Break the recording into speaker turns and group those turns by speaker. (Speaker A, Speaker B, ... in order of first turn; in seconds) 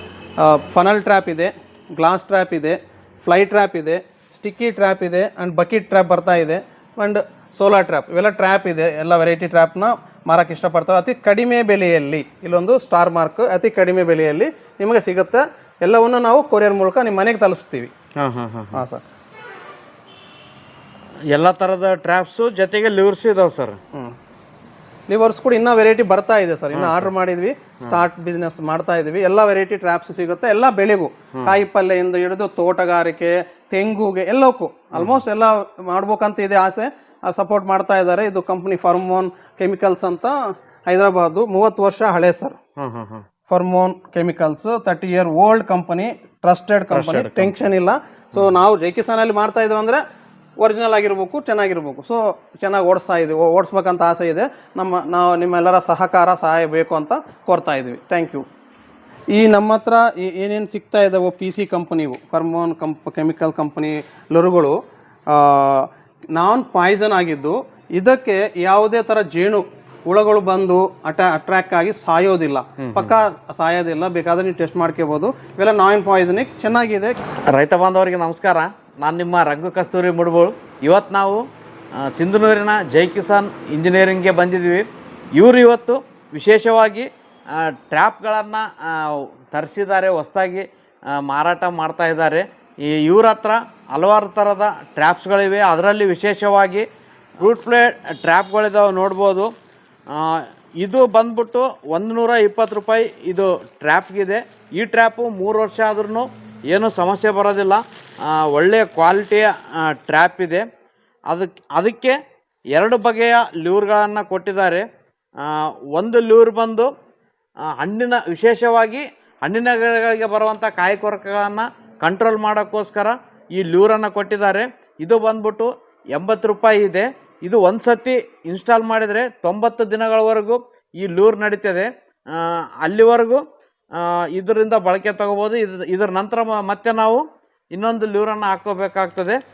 Speaker A: 0.4-17.9, 18.7-19.0, 25.1-40.3, 40.9-42.6, 43.5-50.0, 50.6-58.4, 59.3-64.8, 65.3-77.2
Speaker B: 18.2-18.8, 21.3-23.8, 26.7-27.1, 42.8-43.2, 46.9-47.5, 72.8-73.1, 77.5-81.4, 82.0-84.8, 85.4-96.9, 97.4-99.5, 100.1-110.7, 111.3-112.2, 112.8-114.9, 115.4-116.9, 117.7-133.4, 134.0-139.4